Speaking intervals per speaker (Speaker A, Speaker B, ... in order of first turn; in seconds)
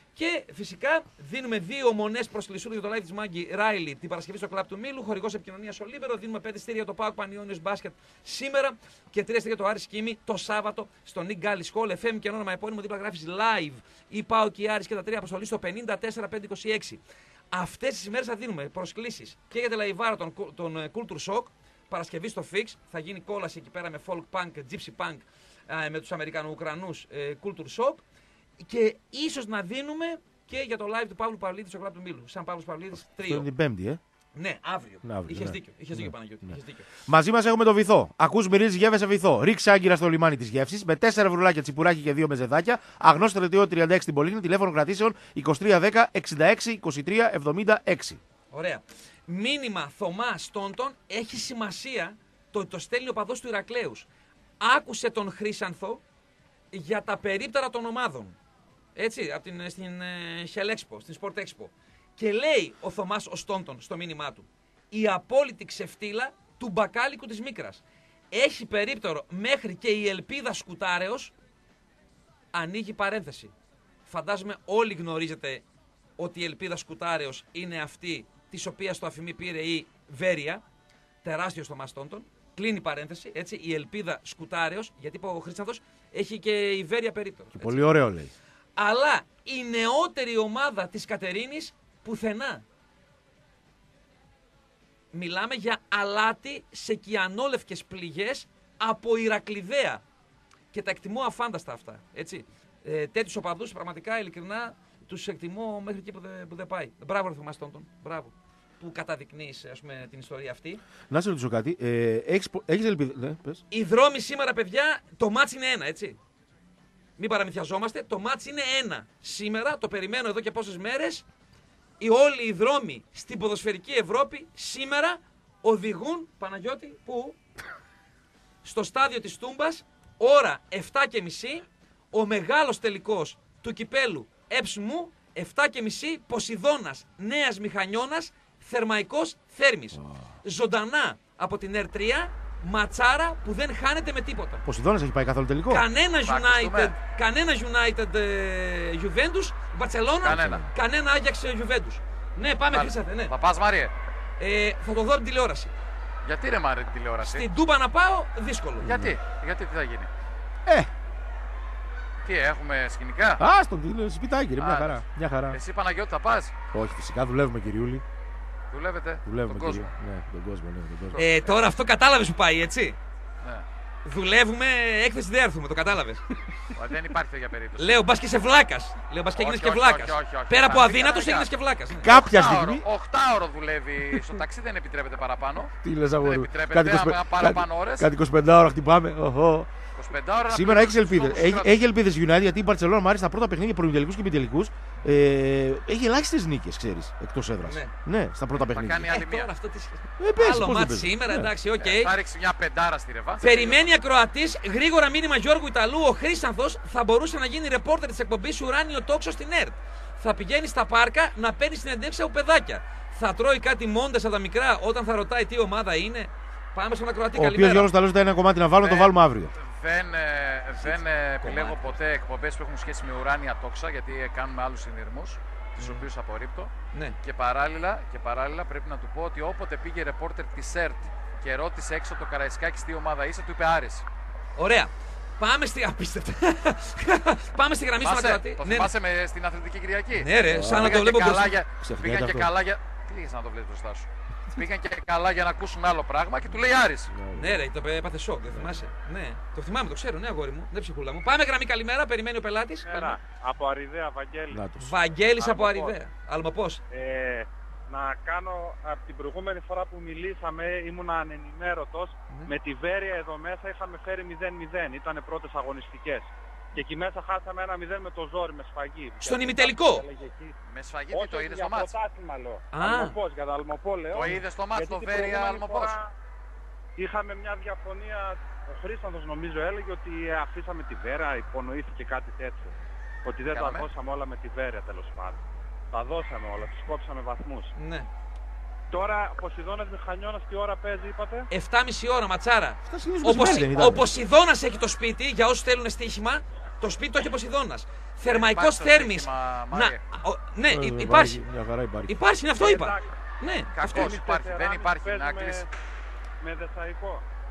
Speaker A: 0.1-17.0, 17.5-28.0, 28.6-33.5, 34.4-36.9, 48.5-54.1, 54.6-56.0, 56.7-58.4, 59.0-71.3, 72.5-73.5, 74.1-75.6, 76.2-80.6, 81.2-87.8, 88.8-92.6, 95.1-100.0, 100.7-110.8, 113.7-116.2, 117.2-121.2, 122.0-127.4, 128.6-144.6, 145.7-153.3, 154.4-155.7, 157.2-158.9, 171.2-173.0, 174.1-176.2, 177.8-182.1, 197.6-197.9, 199.1-202.1, 203.4-217.9, 220.8-222.0, 225.8-226.1, 234.6-238.9, 240.1-241.6, 247.3-253.2, 254.8-256.8, 269.2-270.1, 272.7-273.1, 287.8-288.1, 291.5-301.4, 302.1-304.2
Speaker B: 33.0-34.0, 35.0-48.2, 87.6-88.3, 111.1-113.6, 139.9-140.3, 144.6-145.8, 150.2-150.7, 158.8-159.2, 163.4-165.6, 166.7-168.0, 169.2-171.2, 182.0-182.8, 185.8-189.7, 190.5-199.2, 200.2-201.5, 217.3-219.5, 240.5-241.1, 241.8-242.5, 247.1-247.7, 254.5-254.9, 292.9-294.1, 300.7-302.1
Speaker C: 146.3-146.9, 150.2-150.6, 152.7-153.9, 156.2-157.5, 158.8-160.1, 162.2-163.4, 164.6-165.0, 165.5-166.6, 168.7-169.9, 171.1-171.6, 176.7-178.1, 179.4-181.5, 182.1-188.1, 190.0-191.7, 198.5-199.5, 201.8-203.9, 218.8-234.1, 238.0-247.1, 255.5-255.9, 270.7-271.9, 274.1-275.9, 283.5-283.9, 298.3-300.0, 303.9-305.6
Speaker D: 252.9-254.6, 256.9-270.6, 271.1-276.1, 277.0-282.7, 283.2-285.4, 285.9-287.7, 288.9-291.5, 302.6-303.1, 303.8-305.7, 306.4-307.2